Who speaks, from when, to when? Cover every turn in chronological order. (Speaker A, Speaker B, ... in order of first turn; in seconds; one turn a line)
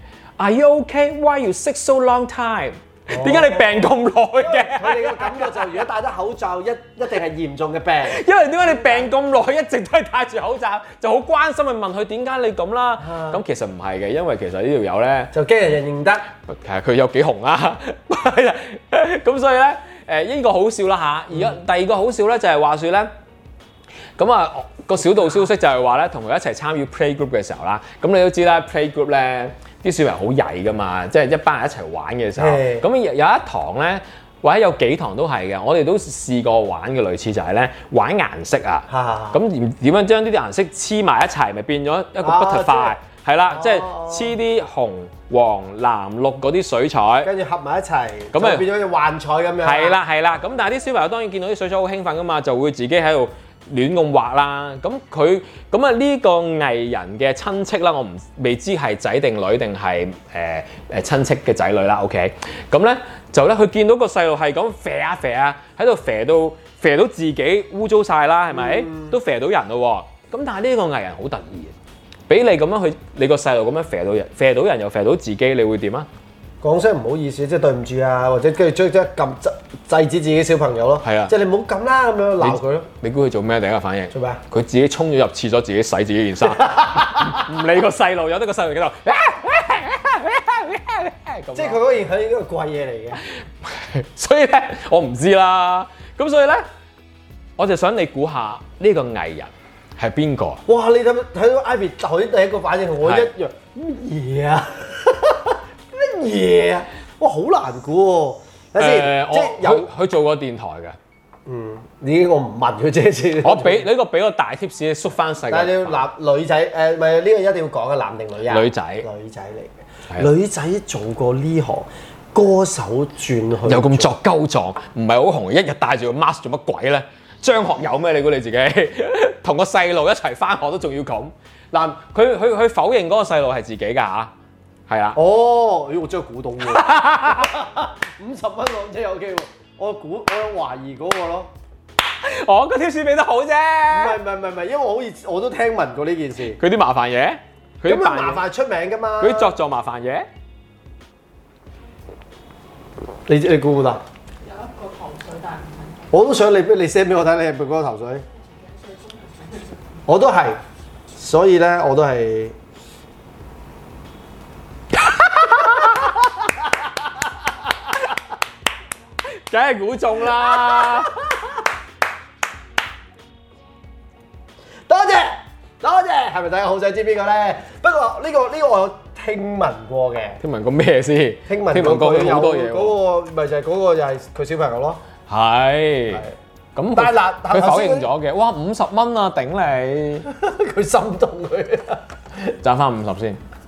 Speaker A: 0.4-5.8
Speaker B: 3.1-3.9
Speaker B: 4.4-9.1
Speaker A: 8.0-15.3
Speaker B: 13.0-13.4
Speaker B: 15.3-16.3
Speaker A: 16.4-23.1
Speaker A: 24.2-47.3
Speaker B: 32.4-32.9
Speaker B: 38.9-39.4
Speaker B: 42.2-43.0
Speaker B: 43.5-44.3
Speaker B: 47.2-50.0
Speaker A: 48.3-48.7
Speaker A: 49.6-71.7
Speaker B: 68.5-69.2
Speaker A: 72.3-76.1
Speaker B: 76.6-82.9
Speaker A: 81.0-81.3
Speaker A: 82.4-91.8
Speaker B: 84.1-84.4
Speaker B: 86.4-87.4
Speaker B: 91.5-93.2
Speaker A: 93.2-96.6
Speaker A: 97.6-100.6
Speaker B: 100.7-109.9
Speaker A: 103.0-103.3
Speaker A: 108.8-111.0
Speaker B: 111.5-113.9
Speaker A: 113.4-116.1
Speaker B: 115.5-124.1
Speaker A: 118.5-119.1
Speaker A: 123.6-134.3
Speaker A: 134.9-135.2
Speaker B: 135.1-141.5
Speaker A: 136.6-137.5
Speaker A: 142.1-144.2
Speaker B: 143.9-146.6
Speaker A: 146.5-148.4
Speaker B: 147.8-149.5
Speaker A: 149.2-150.3
Speaker B: 153.3-154.0
Speaker C: 154.4-156.1
Speaker B: 156.1-158.2
Speaker C: 158.3-160.0
Speaker B: 160.1-160.6
Speaker B: 161.1-162.5
Speaker A: 165.5-165.9
Speaker B: 165.7-166.1
Speaker A: 169.3-171.1
Speaker B: 170.3-171.5
Speaker B: 174.9-180.4
Speaker A: 180.4-183.0
Speaker B: 181.5-185.0
Speaker A: 185.3-190.3
Speaker B: 186.9-188.1
Speaker B: 190.3-192.0
Speaker A: 192.6-193.4